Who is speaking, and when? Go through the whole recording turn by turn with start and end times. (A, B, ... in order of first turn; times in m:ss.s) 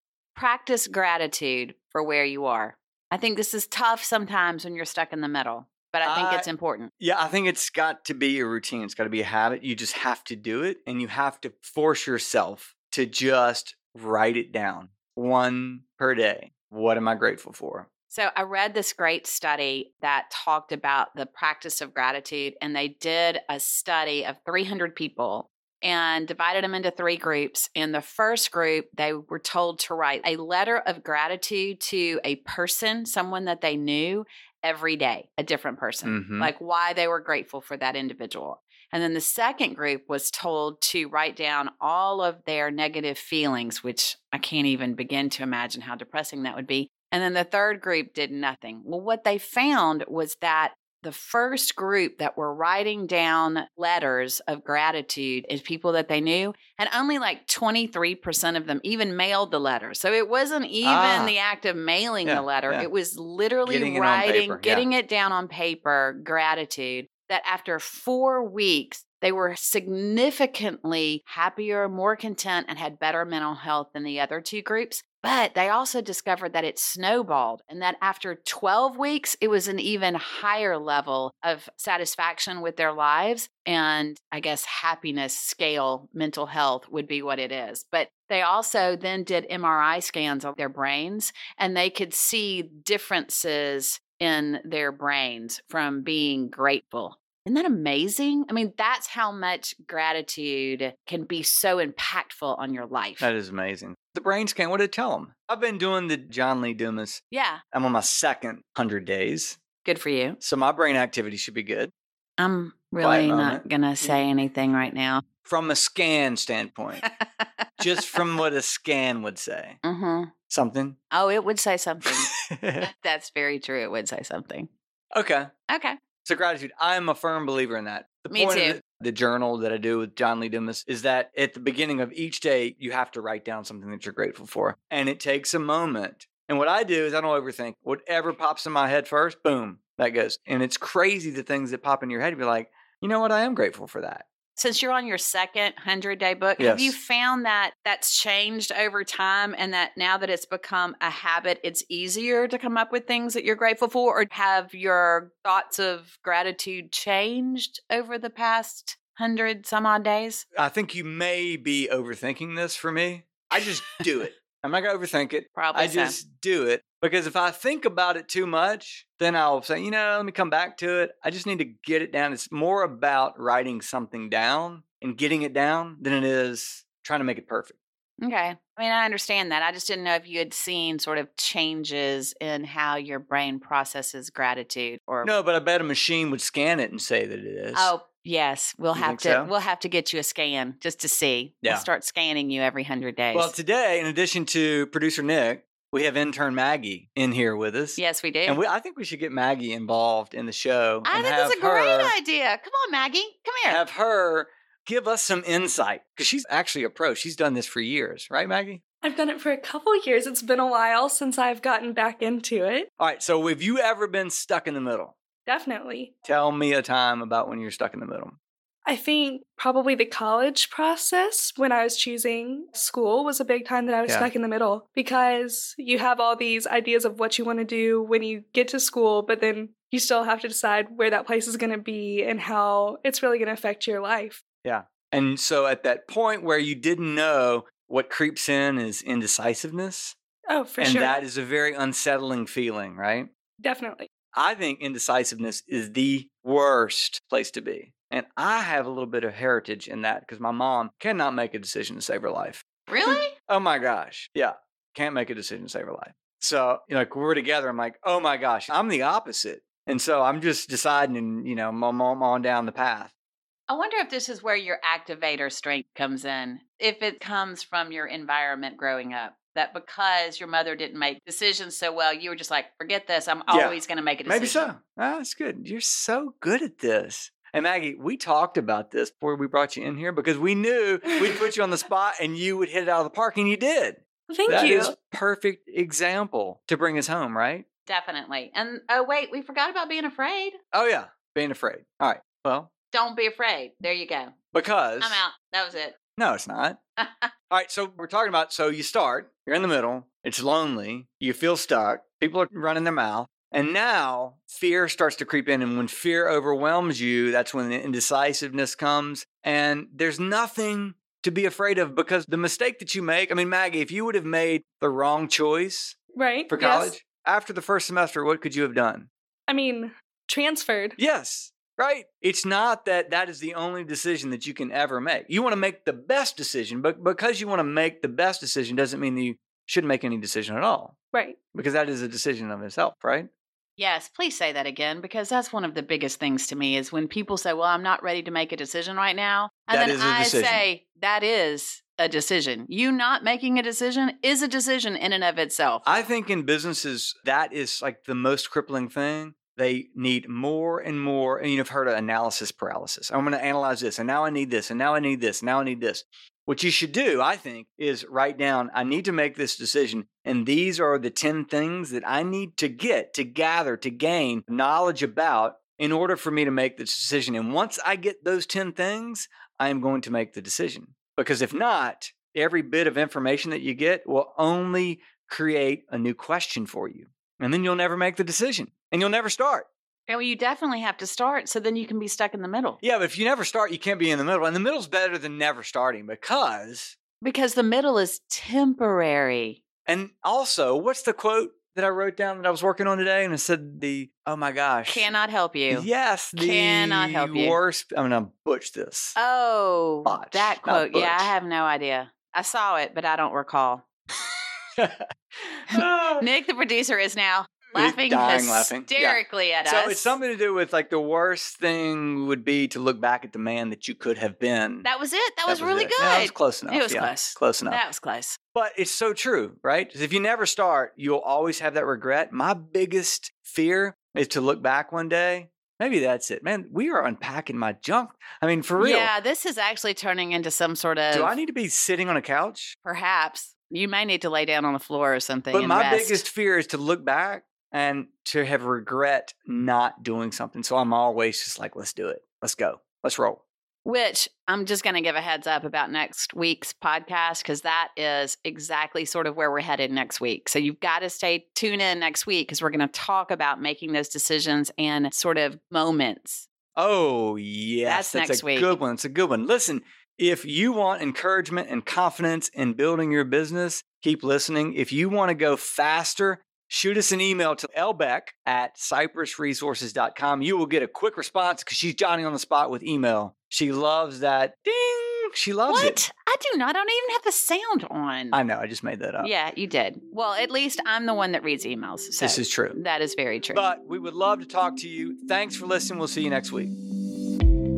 0:00.3-0:06.9 A
0:06.0-0:17.9 B
0:18.1-1:43.3 A
0:36.0-0:36.5 B
1:00.8-1:01.4 B
1:02.2-1:02.9 B
1:03.6-1:04.9 B
1:43.2-1:49.6 B
1:47.3-1:47.6 A
1:49.8-1:50.4 A
1:50.4-1:51.9 B
1:52.4-1:55.2 A
1:53.0-1:53.6 B
1:55.4-1:57.0 B
1:57.0-1:58.2 A
1:57.8-1:59.8 B
1:59.8-2:00.3 A
2:00.5-2:01.0 B
2:01.1-2:04.7 A
2:02.0-2:02.9 B
2:05.1-2:05.5 B
2:05.7-2:06.0 A
2:06.2-2:24.2 B
2:08.3-2:08.8 A
2:24.6-2:40.4 A
2:26.6-2:27.0 B
2:40.5-2:57.8 B
2:45.6-2:46.2 A
2:58.2-3:05.3 A
3:05.2-3:07.9 B
3:07.7-3:13.5 A
3:08.9-3:09.5 B
3:11.6-3:11.9 B
3:13.3-3:22.2 B
3:18.0-3:18.6 A
3:21.0-3:23.8 A
3:23.6-3:28.8 B
3:29.0-3:32.9 C
3:33.0-3:35.1 B
3:35.5-3:36.1 C
3:36.2-3:38.4 B
3:38.8-3:54.4 C
3:54.6-4:00.2 B
4:00.5-4:01.2 C
4:00.8-4:03.3 B
4:03.6-4:04.1 C
4:04.3-4:12.6 B
4:12.9-4:13.3 A
4:13.4-4:23.1 B
4:23.7-4:34.7 A
4:33.5-4:47.6 B
4:44.3-4:44.9 C
4:47.8-4:50.6 A
4:50.7-4:52.7 B
4:52.9-4:54.3 A
4:54.5-4:55.2 B
4:55.0-4:56.0 A
4:56.2-4:56.8 B
4:57.0-4:57.3 A
4:57.5-5:16.0 B
5:16.2-5:16.9 C
5:16.5-5:19.1 B
5:19.5-5:21.0 C
5:21.0-5:31.0 B
5:31.1-5:31.4 C
5:31.5-5:33.3 B
5:33.8-5:46.0 A
5:39.7-5:40.7 B
5:45.8-6:19.7 B
6:20.1-6:22.8 A
6:22.8-6:27.0 B
6:27.2-6:29.6 A
6:29.8-6:35.1 B
6:34.9-6:37.6 A
6:35.7-6:39.2 B
6:39.2-6:43.8 A
6:40.0-6:41.3 B
6:44.8-6:45.1 B
6:45.7-6:46.3 B
6:46.2-6:50.2 A
6:47.7-6:54.9 B
6:54.8-6:58.4 A
6:55.5-6:57.8 B
6:58.5-7:09.1 B
7:08.8-7:11.3 A
7:11.1-7:12.8 B
7:12.8-7:16.2 A
7:15.5-7:23.4 B
7:23.8-7:36.5 A
7:36.8-7:56.0 B
7:37.8-7:38.8 A
7:55.7-7:58.4 A
7:58.3-7:59.3 B
7:59.2-8:03.6 A
8:02.2-8:02.8 B
8:03.5-8:06.7 B